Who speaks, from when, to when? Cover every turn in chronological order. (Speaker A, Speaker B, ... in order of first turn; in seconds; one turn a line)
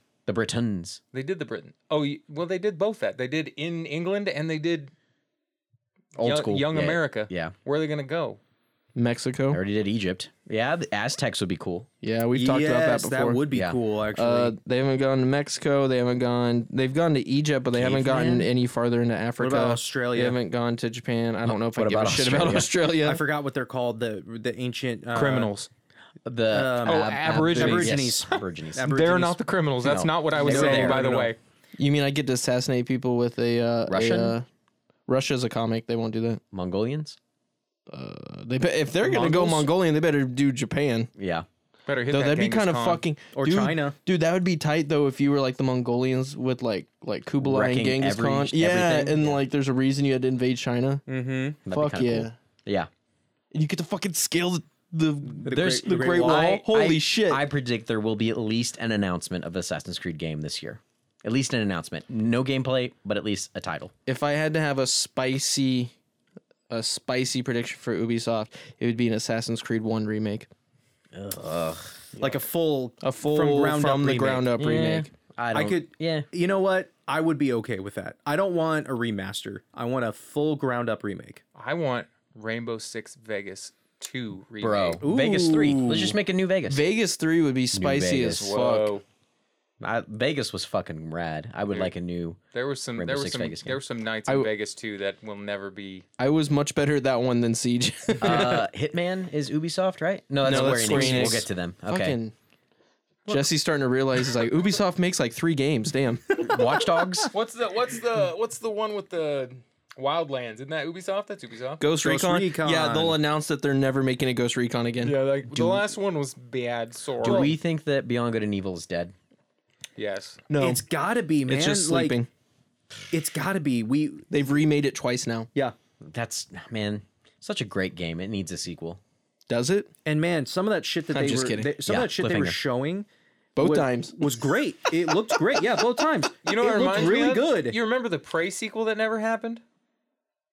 Speaker A: 0.2-1.0
Speaker B: 1.1-4.9
Speaker A: 6.2-7.5
Speaker B: 6.2-8.4
Speaker C: 8.9-9.6
Speaker A: 9.5-11.9
Speaker C: 12.0-13.4
Speaker D: 12.3-14.5
Speaker A: 13.5-13.8
Speaker C: 14.1-23.2
Speaker A: 17.7-18.5
Speaker D: 19.4-20.4
Speaker A: 21.4-22.7
Speaker D: 22.9-25.5
Speaker B: 25.1-25.7
Speaker A: 26.2-28.9
Speaker D: 26.5-29.4
Speaker B: 26.8-31.4
Speaker A: 29.8-31.2
Speaker D: 30.3-31.3
Speaker C: 31.8-34.5
Speaker A: 33.9-34.4
Speaker C: 35.1-36.4
Speaker A: 36.5-37.2
Speaker C: 37.9-41.1
Speaker D: 39.0-39.7
Speaker A: 41.2-41.5
Speaker B: 41.9-43.0
Speaker C: 42.1-51.0
Speaker D: 43.3-44.0
Speaker A: 47.4-49.4
Speaker D: 51.1-51.6
Speaker A: 51.6-52.9
Speaker C: 51.7-52.3
Speaker C: 53.5-57.4
Speaker D: 55.4-56.6
Speaker A: 55.5-63.9
Speaker C: 64.1-65.9
Speaker C: 66.7-70.5
Speaker A: 71.1-72.4
Speaker D: 72.2-74.5
Speaker C: 73.0-75.1
Speaker A: 74.6-76.3
Speaker D: 75.5-81.4
Speaker B: 81.5-85.0
Speaker A: 84.6-86.8
Speaker D: 85.0-86.1
Speaker C: 86.7-89.0
Speaker A: 87.7-88.5
Speaker B: 88.4-89.0
Speaker A: 89.8-92.4
Speaker B: 92.5-96.0
Speaker A: 93.0-93.8
Speaker C: 96.2-98.6
Speaker A: 98.2-102.2
Speaker C: 100.4-102.3
Speaker B: 100.8-101.3
Speaker C: 103.3-106.3
Speaker A: 106.4-107.3
Speaker B: 107.3-111.8
Speaker C: 111.8-115.8
Speaker D: 112.0-113.2
Speaker B: 115.0-117.5
Speaker A: 117.2-119.1
Speaker D: 117.2-117.5
Speaker B: 120.0-120.4
Speaker C: 120.5-120.8
Speaker D: 120.6-122.2
Speaker C: 121.5-122.3
Speaker D: 123.1-124.2
Speaker C: 124.3-125.5
Speaker A: 126.0-129.0
Speaker C: 129.5-129.9
Speaker D: 130.0-133.1
Speaker C: 131.1-131.7
Speaker A: 131.8-132.6
Speaker C: 133.6-134.2
Speaker D: 133.6-137.8
Speaker B: 136.4-139.6